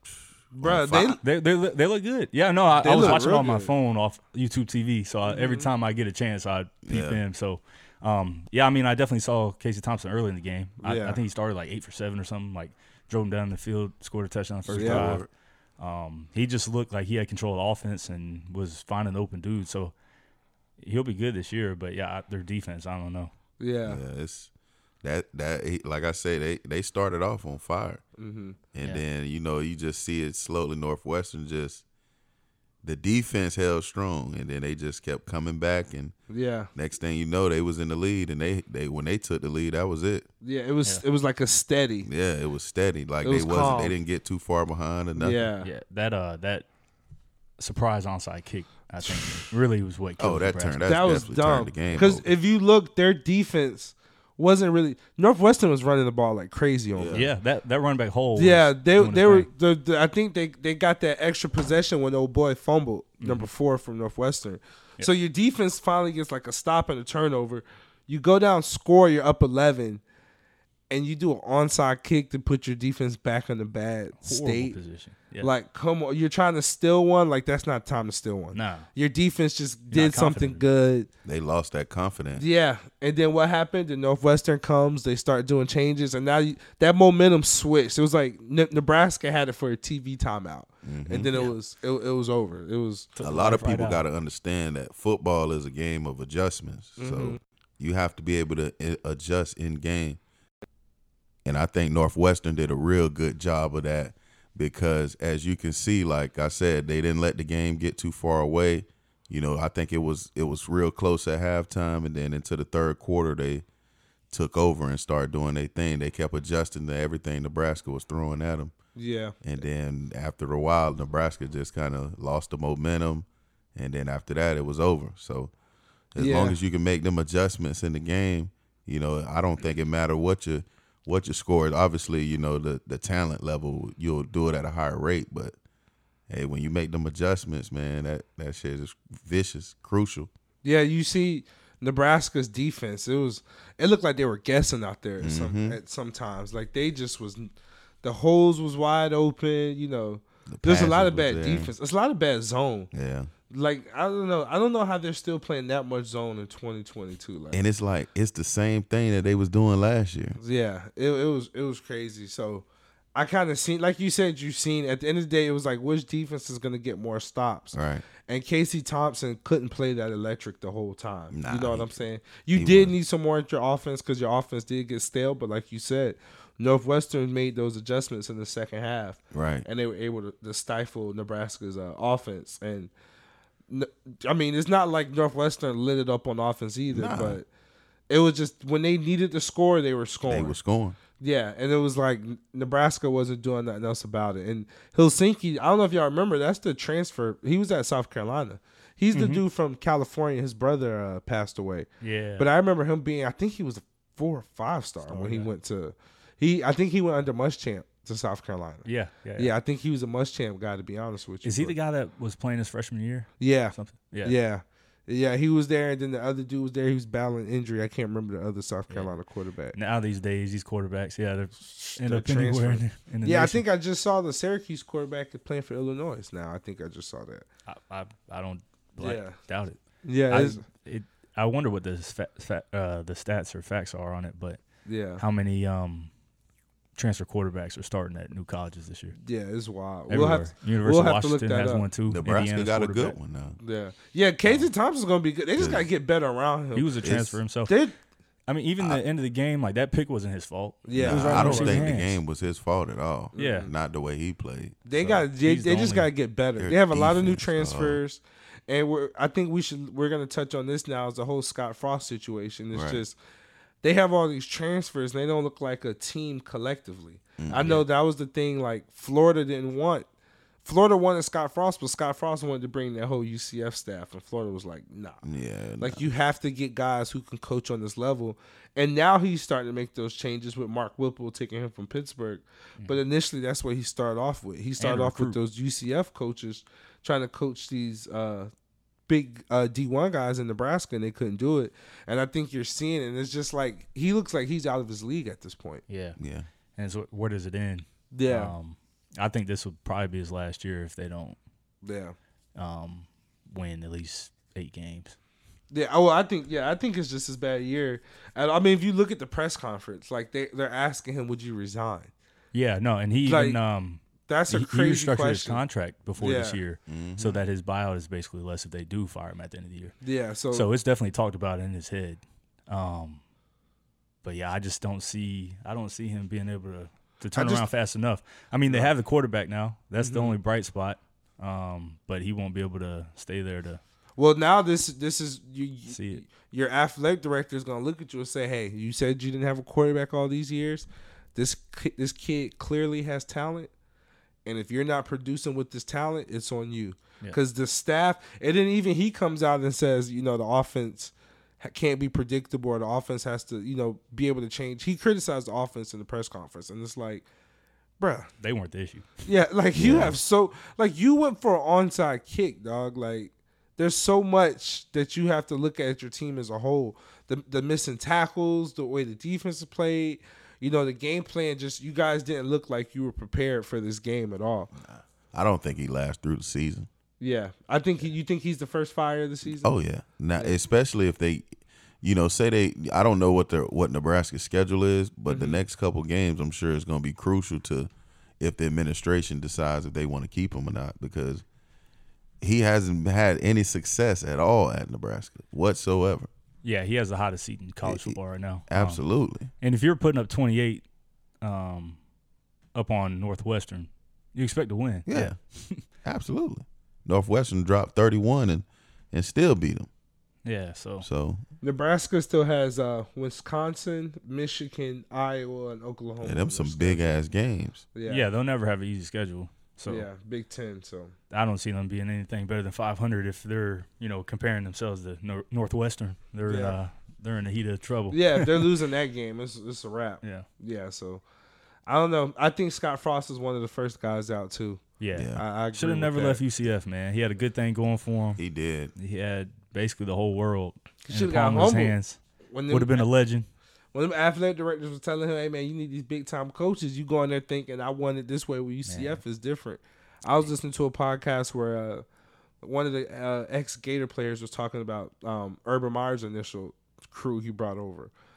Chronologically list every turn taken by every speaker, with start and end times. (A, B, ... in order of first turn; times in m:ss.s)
0:00.6-0:01.2 A
0:00.6-0:01.2 B
0:01.2-0:15.3 C
0:02.8-0:03.7 A
0:05.2-0:05.7 A
0:06.8-0:07.2 B
0:10.8-0:11.2 A
0:14.7-0:15.3 B
0:14.8-0:15.1 A
0:15.8-0:19.9 C
0:20.8-0:23.3 C
0:23.6-0:24.0 A
0:23.8-0:24.5 B
0:25.0-0:28.0 B
0:28.2-0:28.6 A
0:28.7-0:31.8 B
0:32.8-0:36.1 B
0:36.3-0:36.7 A
0:36.7-0:40.3 B
0:40.4-0:42.1 A
0:42.0-0:45.5 B
0:43.2-0:44.0 A
0:45.2-0:45.7 A
0:45.6-0:46.6 C
0:47.6-0:50.8 C
0:49.1-0:49.3 A
0:50.2-0:52.3 B
0:50.8-0:57.2 A
0:56.9-0:57.3 B
0:57.1-0:59.5 C
0:58.4-1:10.0 A
1:03.2-1:03.5 C
1:10.9-1:14.8 A
1:14.2-1:15.5 C
1:15.4-1:21.1 A
1:18.5-1:18.9 C
1:19.9-1:20.6 C
1:21.2-1:22.4 B
1:22.4-1:33.1 A
1:30.8-1:31.3 B
1:33.1-1:34.0 C
1:33.2-1:40.2 B
1:37.0-1:37.4 A
1:41.4-1:53.6 B
1:54.3-1:58.7 B
1:59.0-1:59.3 A
1:59.4-2:05.5 B
2:06.1-2:15.5 B
2:06.2-2:06.6 A
2:16.3-2:20.3 B
2:20.6-2:32.9 A
2:25.2-2:25.8 B
2:30.5-2:31.7 B
2:32.9-2:33.3 B
2:33.5-2:37.6 A
2:37.5-2:40.4 B
2:40.4-3:02.9 A
2:47.7-2:48.0 B
2:51.3-2:51.9 B
2:52.5-2:52.9 B
2:59.3-2:59.6 B
3:03.7-3:07.4 A
3:06.9-3:07.4 B
3:08.1-3:10.6 A
3:10.2-3:11.0 B
3:11.2-3:21.9 A
3:19.1-3:19.4 C
3:22.0-3:22.5 C
3:22.4-3:31.7 A
3:25.1-3:25.5 C
3:28.8-3:29.5 C
3:31.4-3:34.4 C
3:33.4-3:39.7 A
3:39.7-3:43.6 C
3:41.7-3:47.4 A
3:47.7-3:54.6 C
3:49.0-3:49.4 A
3:50.0-3:50.6 A
3:54.8-3:55.2 A
3:55.2-3:56.1 C
3:56.9-3:59.2 C
3:59.2-4:01.8 A
4:00.1-4:03.2 C
4:02.1-4:03.6 B
4:03.6-4:07.0 A
4:05.6-4:05.8 B
4:06.7-4:07.8 C
4:07.0-4:07.4 B
4:07.7-4:07.9 A
4:08.5-4:12.2 C
4:10.9-4:11.9 A
4:10.9-4:14.8 B
4:13.3-4:13.7 A
4:13.4-4:13.7 C
4:14.8-4:23.2 A
4:15.0-4:16.1 C
4:16.6-4:18.0 B
4:22.7-4:23.0 B
4:23.8-4:30.1 A
4:27.4-4:27.8 B
4:30.6-4:35.2 A
4:35.2-4:36.1 B
4:35.8-4:48.5 A
4:44.8-4:45.4 C
4:49.1-4:55.8 A
4:55.9-4:56.2 C
4:56.2-4:56.4 B
4:56.8-5:01.4 C
4:58.1-4:58.5 A
5:01.8-5:02.1 A
5:02.6-5:05.2 C
5:05.7-5:12.1 A
5:12.5-5:19.9 C
5:13.2-5:13.6 A
5:14.3-5:15.6 A
5:16.2-5:16.6 A
5:16.9-5:17.4 B
5:20.0-5:20.6 A
5:20.5-5:23.2 C
5:24.2-5:33.8 C
5:27.3-5:27.6 A
5:28.7-5:28.9 A
5:30.0-5:30.4 A
5:34.2-5:43.7 A
5:35.9-5:36.2 C
5:44.4-5:57.3 A
5:58.0-5:58.3 A
5:58.4-5:59.2 C
5:59.2-6:14.7 A
5:59.7-6:00.1 B
6:14.8-6:16.9 B
6:17.2-6:19.7 A
6:19.6-6:21.5 B
6:22.0-6:31.4 B
6:25.3-6:25.6 A
6:32.4-6:36.3 B
6:36.6-6:40.8 C
6:37.8-6:39.5 B
6:41.4-6:42.0 C
6:42.7-6:45.8 C
6:45.1-6:49.9 B
6:50.4-6:51.0 C
6:51.0-6:51.4 B
6:51.6-6:57.2 A
6:56.2-6:57.8 B
6:57.9-6:58.2 A
6:58.1-7:00.1 C
6:59.9-7:01.1 A
7:01.3-7:08.6 C
7:06.5-7:06.8 A
7:08.1-7:11.2 A
7:11.9-7:16.4 A
7:15.0-7:18.4 C
7:15.1-7:15.4 B
7:18.4-7:18.9 B
7:18.9-7:23.5 C
7:21.1-7:22.0 A
7:22.5-7:23.1 A
7:23.9-7:32.0 A
7:28.9-7:29.2 C
7:32.6-7:38.1 A